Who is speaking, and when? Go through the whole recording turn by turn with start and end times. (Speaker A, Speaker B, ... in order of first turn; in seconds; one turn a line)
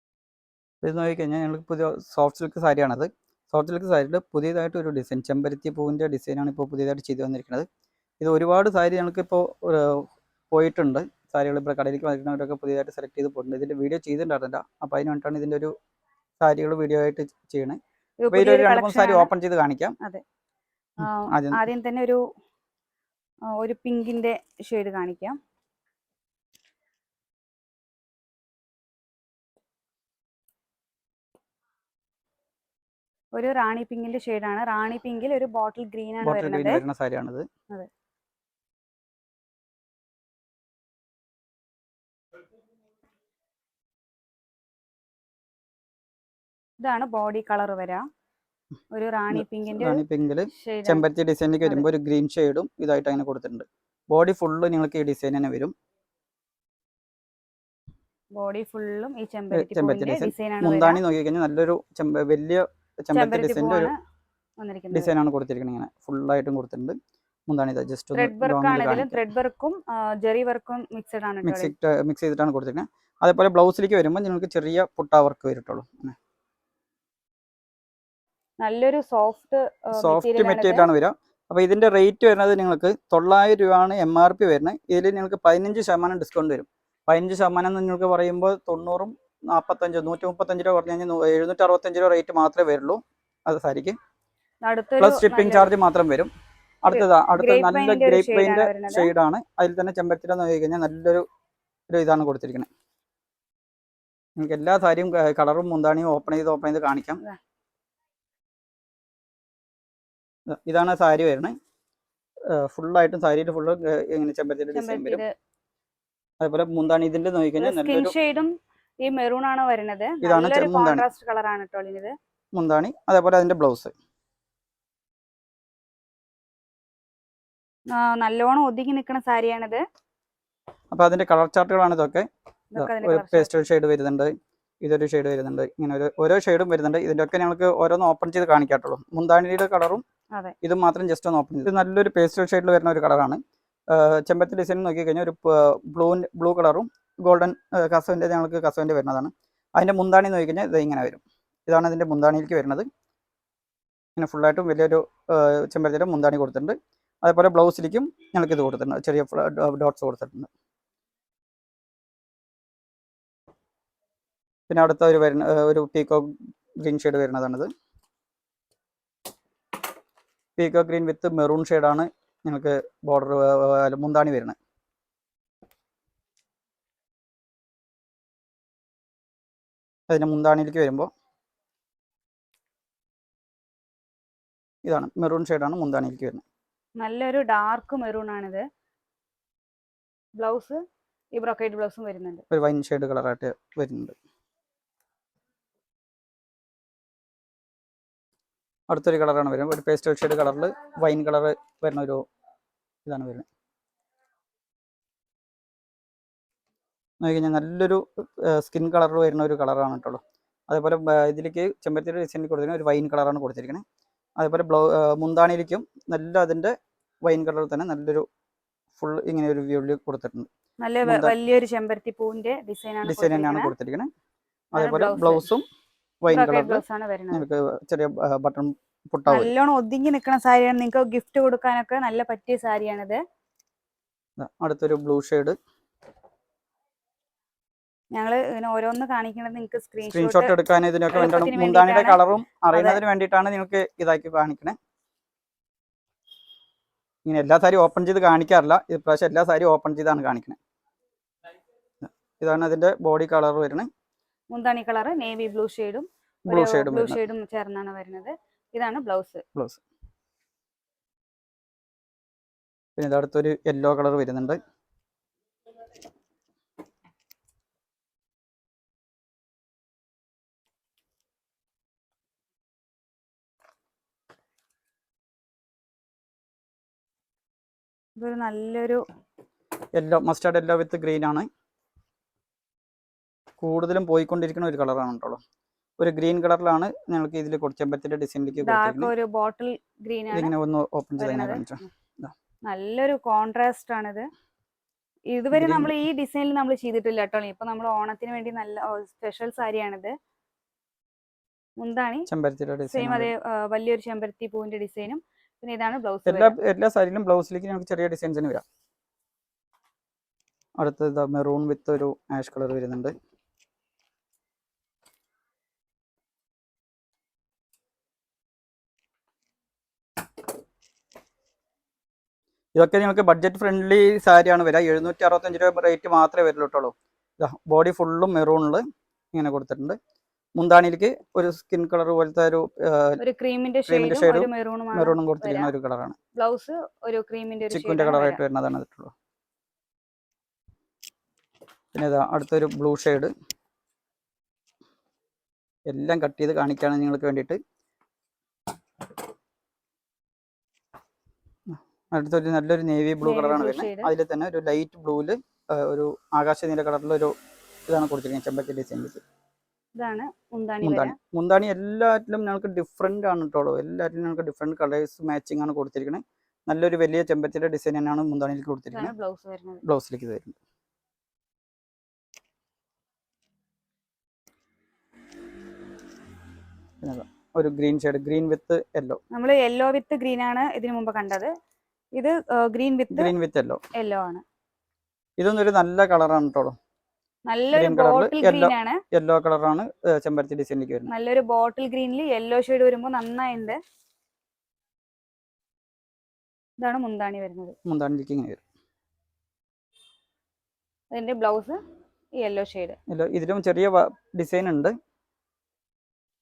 Speaker A: 0.8-7.7
Speaker A: 8.2-15.7
Speaker A: 16.4-17.8
Speaker B: 18.2-19.3
Speaker A: 18.3-19.9
Speaker B: 21.0-22.2
Speaker A: 21.3-21.7
Speaker B: 23.5-25.4
Speaker B: 33.3-36.8
Speaker A: 36.2-37.5
Speaker B: 46.8-48.1
Speaker B: 48.9-51.0
Speaker A: 49.3-55.7
Speaker B: 58.3-61.0
Speaker A: 59.5-63.9
Speaker B: 63.1-63.9
Speaker B: 64.6-65.1
Speaker A: 64.9-67.0
Speaker A: 67.5-69.2
Speaker B: 68.1-71.7
Speaker A: 71.4-76.2
Speaker B: 78.6-80.9
Speaker A: 80.0-94.0
Speaker B: 94.6-95.7
Speaker A: 95.0-96.3
Speaker A: 96.8-101.2
Speaker B: 96.9-99.1
Speaker A: 101.9-102.7
Speaker A: 104.4-107.2
Speaker A: 110.5-111.5
Speaker A: 112.5-115.2
Speaker B: 114.7-115.3
Speaker A: 116.4-118.1
Speaker B: 117.6-118.5
Speaker B: 119.0-122.1
Speaker A: 120.2-121.0
Speaker A: 122.5-123.9
Speaker B: 127.9-129.8
Speaker A: 130.9-140.0
Speaker B: 132.7-133.6
Speaker A: 140.6-152.9
Speaker A: 154.2-160.5
Speaker A: 164.7-167.7
Speaker A: 170.6-174.6
Speaker A: 180.1-181.1
Speaker A: 184.8-186.4
Speaker B: 187.0-188.6
Speaker B: 190.4-190.8
Speaker B: 191.3-192.4
Speaker A: 192.5-194.1
Speaker A: 198.9-202.2
Speaker A: 203.1-203.4
Speaker A: 207.2-213.8
Speaker A: 214.4-216.7
Speaker A: 217.2-218.2
Speaker A: 219.0-220.5
Speaker B: 220.8-223.7
Speaker A: 221.0-221.3
Speaker A: 223.0-224.1
Speaker A: 224.7-225.6
Speaker B: 224.8-225.5
Speaker A: 226.2-229.5
Speaker B: 226.3-227.4
Speaker B: 229.3-233.2
Speaker A: 234.4-235.6
Speaker B: 238.1-240.5
Speaker A: 240.0-244.8
Speaker B: 241.1-242.2
Speaker B: 242.7-243.0
Speaker A: 247.2-250.6
Speaker A: 252.0-253.9
Speaker B: 254.5-259.4
Speaker A: 256.5-257.2
Speaker A: 259.6-259.8
Speaker A: 263.0-264.6
Speaker B: 278.2-279.0
Speaker A: 279.9-281.5
Speaker A: 283.6-285.4
Speaker A: 286.0-289.1
Speaker B: 288.6-290.5
Speaker A: 290.3-292.3
Speaker B: 291.2-291.9
Speaker B: 292.7-294.3
Speaker B: 295.3-300.1
Speaker A: 295.5-296.0
Speaker B: 301.8-302.3
Speaker A: 302.3-303.3
Speaker B: 302.9-306.6
Speaker A: 306.2-308.6
Speaker A: 310.8-313.1
Speaker A: 322.7-330.0
Speaker A: 330.6-333.2
Speaker B: 333.2-335.7
Speaker A: 333.9-336.2
Speaker B: 336.4-338.4
Speaker A: 337.7-339.1
Speaker A: 341.9-343.3
Speaker A: 345.9-347.6
Speaker A: 351.7-357.3
Speaker B: 353.2-354.1
Speaker A: 357.9-359.2
Speaker B: 360.0-361.1
Speaker A: 360.8-369.1
Speaker B: 368.9-369.8
Speaker A: 369.9-370.6
Speaker A: 377.0-379.2
Speaker B: 379.3-381.5
Speaker B: 382.2-383.3
Speaker A: 383.1-383.8
Speaker B: 383.9-384.4
Speaker A: 385.4-386.8
Speaker B: 387.5-389.0
Speaker A: 387.7-391.1
Speaker B: 391.1-393.8
Speaker B: 396.8-397.8
Speaker A: 397.9-398.6
Speaker B: 401.1-401.8
Speaker B: 402.4-403.0
Speaker A: 403.1-404.9